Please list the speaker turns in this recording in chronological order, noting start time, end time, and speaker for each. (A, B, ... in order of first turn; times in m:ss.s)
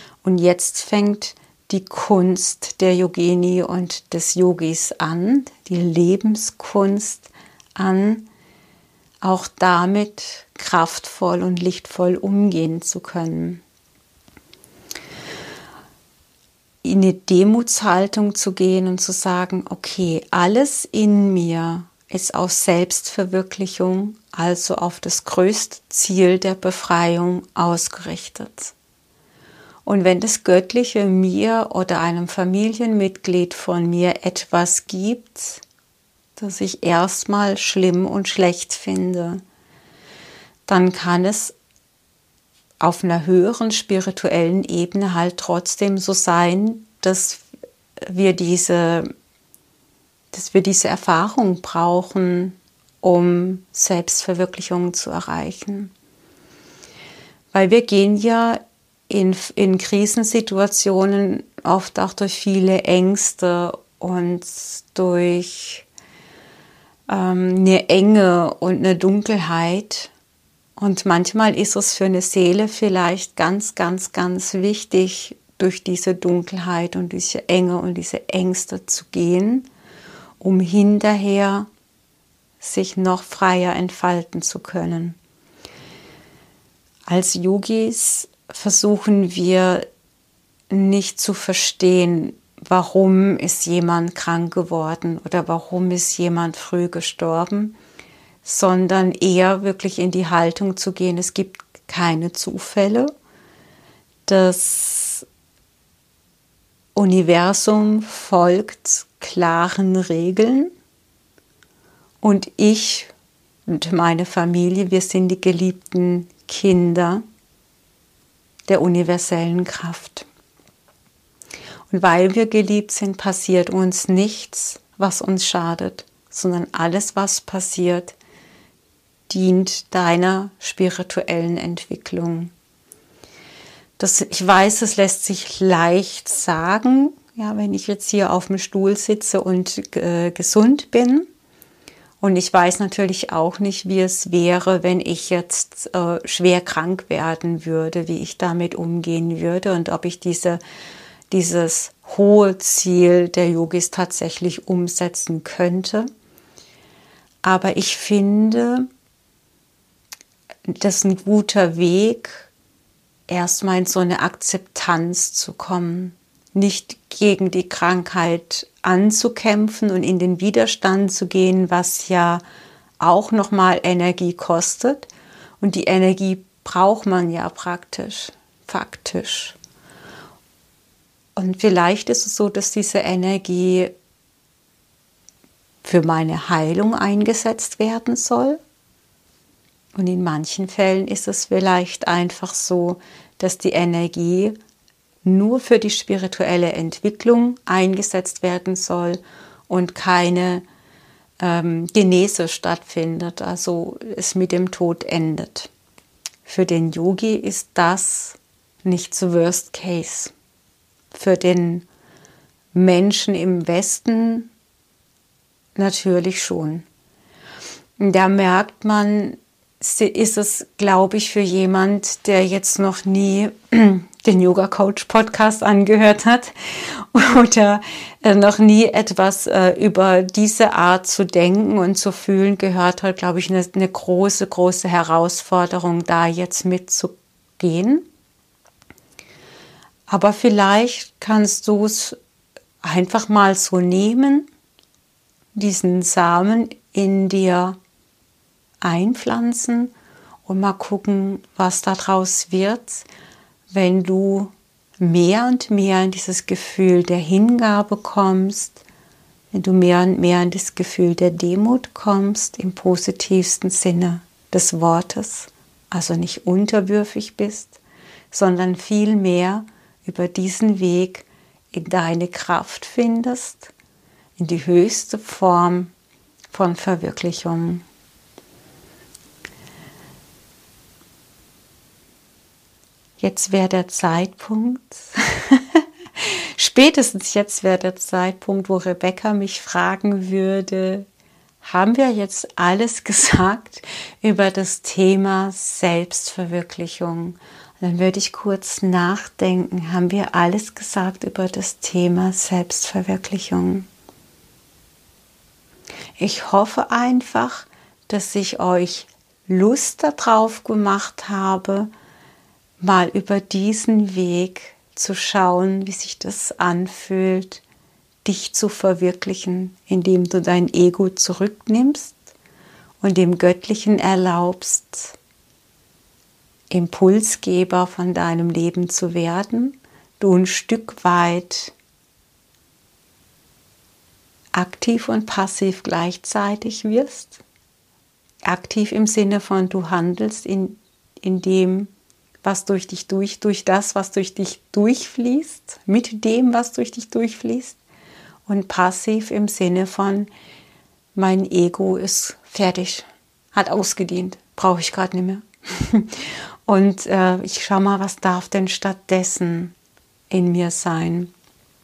0:00.2-0:08.3 A
0:09.2-0:13.6 A
0:16.8-0:28.7 A
0:29.8-0:35.6 A
0:36.4-0:39.4 A
0:40.7-0:41.6 A
0:42.8-0:47.4 A
0:48.0-0:49.1 A
0:50.3-0:55.9 A
0:57.5-1:05.9 A
1:07.1-1:10.1 A
1:10.8-1:19.7 A
1:20.4-1:21.7 A
1:22.6-1:25.2 A
1:27.1-1:29.9 A
1:30.7-1:37.8 A
1:38.4-1:43.1 A
1:44.3-1:45.3 A
1:47.0-1:50.7 A
1:52.2-1:53.1 A
1:53.7-1:57.2 A
1:58.7-2:00.3 A
2:01.9-2:08.2 A
2:09.3-2:12.5 A
2:14.0-2:21.3 A
2:22.2-2:30.6 A
2:31.3-2:36.1 A
2:37.4-2:38.9 A
2:40.7-2:42.5 A
2:43.3-2:52.4 A
2:53.0-2:55.1 A
2:55.6-2:59.6 A
3:01.4-3:03.9 A
3:05.8-3:08.6 A
3:10.0-3:14.6 A
3:15.2-3:20.6 A
3:21.4-3:25.7 A
3:26.4-3:30.3 A
3:31.1-3:31.9 A
3:32.7-3:34.5 A
3:35.8-3:36.8 A
3:38.0-3:58.0 A
4:00.1-4:02.2 A
4:02.8-4:04.5 A
4:05.5-4:07.8 A
4:08.8-4:09.9 A
4:10.5-4:13.1 A
4:13.7-4:18.8 A
4:19.5-4:27.8 A
4:28.3-4:33.7 A
4:34.4-4:35.9 A
4:36.5-4:37.8 A
4:43.2-4:51.1 A
4:51.6-5:03.9 A
5:06.2-5:11.9 A
5:12.8-5:17.6 A
5:18.2-5:22.2 A
5:23.0-5:25.2 A
5:26.7-5:31.7 A
5:34.5-5:37.4 A
5:38.4-5:41.9 A
5:42.4-5:47.8 A
5:48.5-5:50.3 A
5:51.2-5:59.8 A
6:00.3-6:01.3 A